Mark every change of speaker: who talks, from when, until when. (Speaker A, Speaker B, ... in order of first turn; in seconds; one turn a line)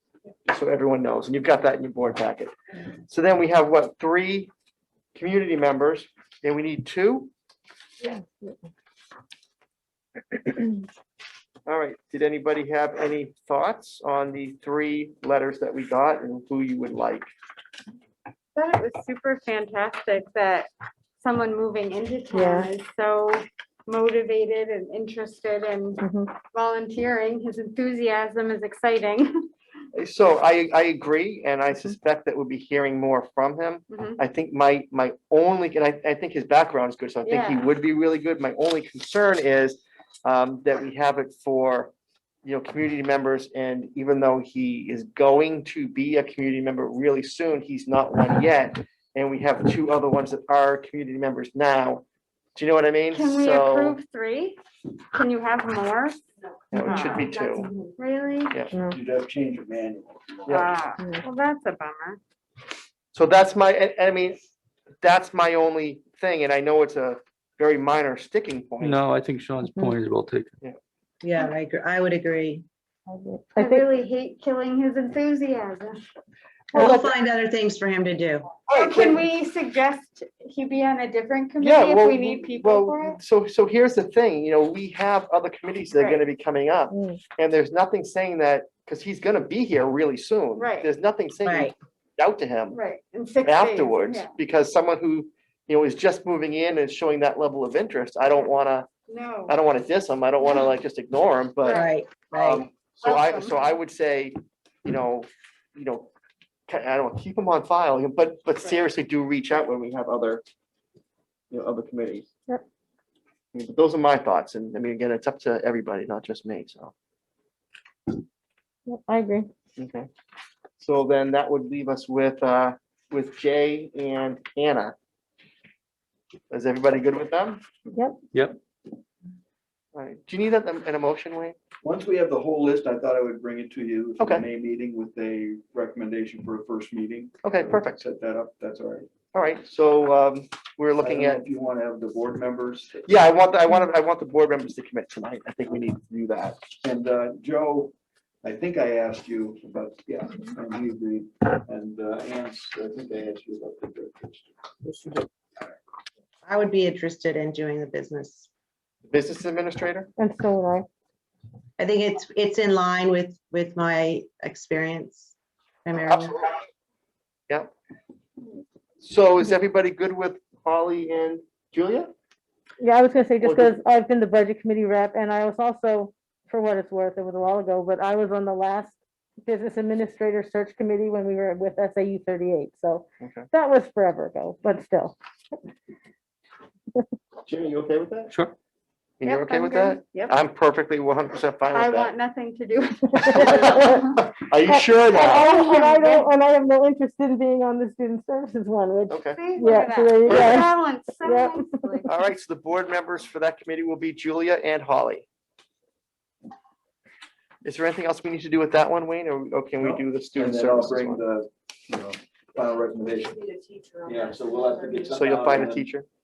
Speaker A: 0.5-2.5
Speaker A: 3.1-4.5
Speaker A: 5.1-7.3
Speaker B: 8.1-8.5
Speaker A: 11.7-17.3
Speaker C: 18.5-20.7
Speaker C: 21.2-26.0
Speaker B: 22.3-22.7
Speaker B: 26.0-26.4
Speaker C: 26.5-29.3
Speaker A: 29.9-41.9
Speaker C: 33.9-34.2
Speaker C: 37.2-37.6
Speaker A: 42.4-52.0
Speaker A: 52.5-54.0
Speaker C: 53.1-54.6
Speaker C: 55.1-56.2
Speaker A: 56.7-57.7
Speaker C: 56.8-57.3
Speaker D: 57.3-57.9
Speaker C: 58.0-58.5
Speaker E: 58.9-60.7
Speaker C: 60.5-62.2
Speaker A: 63.1-64.4
Speaker A: 65.0-69.0
Speaker F: 68.8-70.5
Speaker G: 71.2-72.6
Speaker B: 73.1-73.8
Speaker C: 73.6-75.9
Speaker B: 76.7-77.1
Speaker G: 76.7-78.5
Speaker A: 78.7-79.2
Speaker C: 78.7-83.2
Speaker A: 81.6-92.8
Speaker C: 85.9-86.2
Speaker B: 86.9-87.2
Speaker C: 90.6-90.9
Speaker G: 91.4-91.7
Speaker C: 92.7-94.3
Speaker A: 93.4-98.9
Speaker C: 99.1-99.5
Speaker A: 99.5-106.1
Speaker C: 101.6-101.9
Speaker G: 101.7-102.7
Speaker C: 103.0-103.6
Speaker A: 106.7-110.4
Speaker A: 111.5-112.3
Speaker A: 113.5-116.9
Speaker B: 118.9-119.5
Speaker A: 119.8-120.1
Speaker A: 120.8-124.9
Speaker A: 126.5-127.6
Speaker F: 128.3-128.6
Speaker A: 129.9-131.6
Speaker E: 131.8-139.1
Speaker A: 137.4-138.0
Speaker A: 139.3-141.4
Speaker E: 141.0-143.1
Speaker A: 143.1-146.6
Speaker E: 146.8-154.5
Speaker G: 154.8-155.3
Speaker G: 156.4-158.5
Speaker A: 159.1-160.1
Speaker B: 160.2-160.9
Speaker G: 161.8-166.4
Speaker A: 169.0-172.1
Speaker B: 172.8-185.2
Speaker A: 173.4-173.7
Speaker A: 183.2-183.5
Speaker A: 187.4-188.3
Speaker A: 189.2-192.1
Speaker C: 189.2-190.3
Speaker C: 191.7-194.2
Speaker B: 193.2-194.0
Speaker A: 193.3-195.5
Speaker B: 194.7-200.7
Speaker C: 195.1-196.3
Speaker A: 199.1-199.4
Speaker C: 199.3-202.1
Speaker A: 200.2-200.6
Speaker B: 201.2-201.8
Speaker A: 202.1-205.2
Speaker A: 207.6-211.2
Speaker E: 209.8-213.4
Speaker D: 213.2-215.3
Speaker E: 214.0-215.9
Speaker A: 215.1-216.1